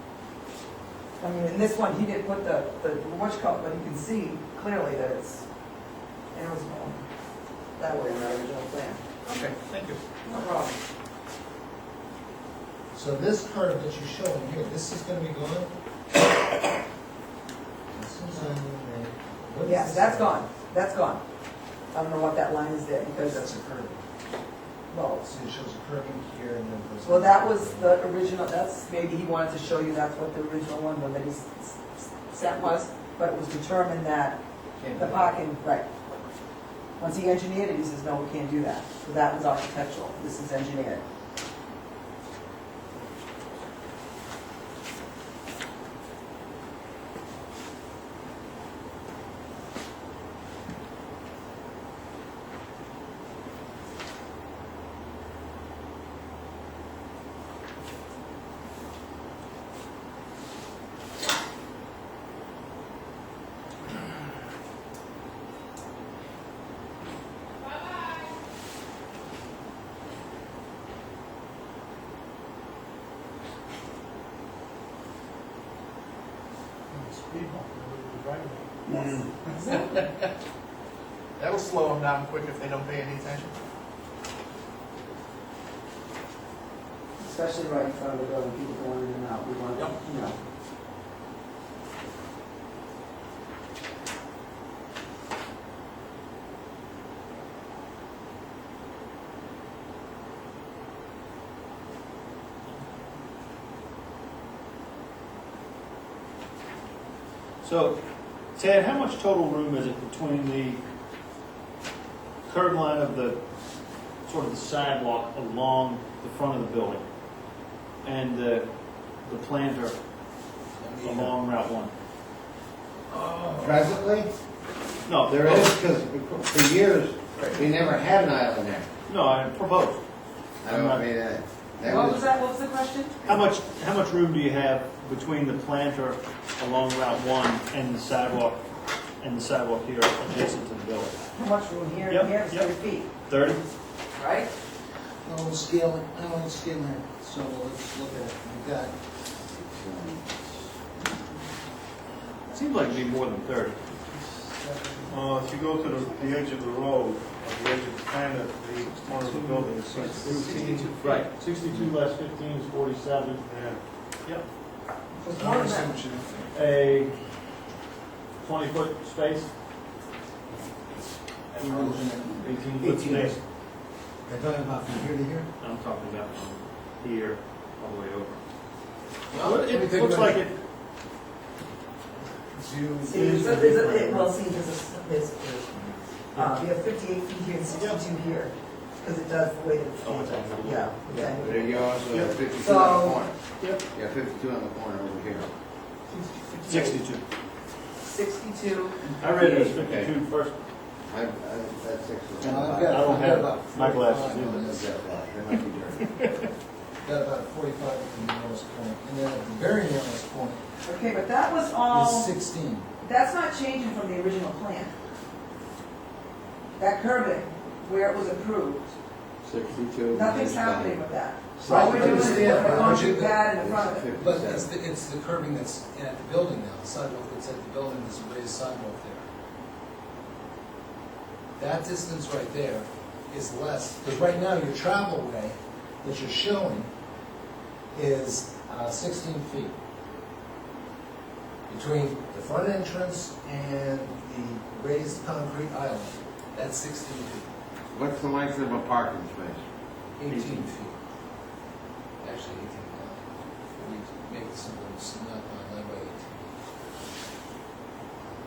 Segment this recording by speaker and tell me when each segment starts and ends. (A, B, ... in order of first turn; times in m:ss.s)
0:01.2-0:05.5 A
0:06.3-0:07.1 A
0:07.8-0:09.0 A
0:09.2-0:10.0 B
0:10.3-0:10.8 A
0:12.9-0:15.7 C
0:17.9-0:20.4 C
0:19.6-0:21.2 A
0:21.9-0:23.4 A
0:23.2-0:24.0 C
0:24.9-0:25.2 A
0:25.2-0:28.0 C
0:27.0-0:34.4 A
0:34.8-0:35.4 C
0:34.9-0:35.9 A
0:37.0-0:41.0 A
1:16.9-1:18.7 B
1:18.9-1:19.8 A
1:18.9-1:19.2 D
1:21.4-1:23.5 B
1:27.2-1:30.4 A
1:29.8-1:30.0 B
1:47.6-1:48.0 D
1:48.5-1:50.8 D
1:52.5-1:53.4 D
1:54.3-1:57.0 D
1:58.0-1:58.7 D
1:59.2-2:00.0 D
2:00.8-2:01.3 C
2:01.0-2:01.9 D
2:03.1-2:03.8 C
2:03.5-2:04.3 E
2:05.1-2:05.8 D
2:05.3-2:08.9 E
2:09.1-2:10.0 D
2:10.6-2:12.3 E
2:10.7-2:11.1 D
2:11.8-2:13.2 A
2:13.2-2:18.6 D
2:19.2-2:21.2 D
2:21.4-2:23.1 A
2:22.1-2:22.7 D
2:23.2-2:23.6 D
2:24.2-2:24.5 A
2:25.2-2:29.0 C
2:29.7-2:30.2 E
2:32.5-2:34.2 D
2:35.1-2:40.9 F
2:39.0-2:43.4 D
2:40.3-2:41.2 B
2:43.4-2:43.8 F
2:45.2-2:46.0 A
2:45.4-2:46.5 C
2:46.5-2:47.1 D
2:48.4-2:49.5 D
2:51.5-2:53.4 D
2:51.5-2:53.4 C
2:54.3-2:55.5 C
2:55.6-2:58.4 D
2:59.3-3:00.4 C
2:59.4-3:00.6 D
3:02.5-3:03.7 C
3:03.0-3:11.9 A
3:03.1-3:04.3 D
3:06.4-3:06.7 D
3:07.7-3:08.0 D
3:10.0-3:11.4 D
3:11.4-3:13.4 E
3:12.6-3:13.3 A
3:13.6-3:13.8 D
3:13.9-3:15.5 E
3:16.1-3:17.0 A
3:16.6-3:17.2 D
3:18.0-3:19.1 A
3:19.2-3:20.6 D
3:19.4-3:20.2 E
3:21.1-3:23.4 E
3:22.4-3:24.9 C
3:22.9-3:24.7 D
3:24.6-3:26.1 E
3:27.0-3:30.6 C
3:30.8-3:32.3 A
3:31.9-3:32.9 C
3:33.0-3:34.9 A
3:36.8-3:39.0 A
3:39.4-3:41.1 E
3:40.1-3:44.1 A
3:41.6-3:44.7 E
3:41.6-3:43.5 C
3:44.1-3:49.3 C
3:51.6-3:56.9 C
3:57.9-3:59.8 C
4:01.7-4:07.5 C
4:07.9-4:09.6 E
4:10.2-4:11.0 C
4:10.3-4:10.6 D
4:12.2-4:16.5 C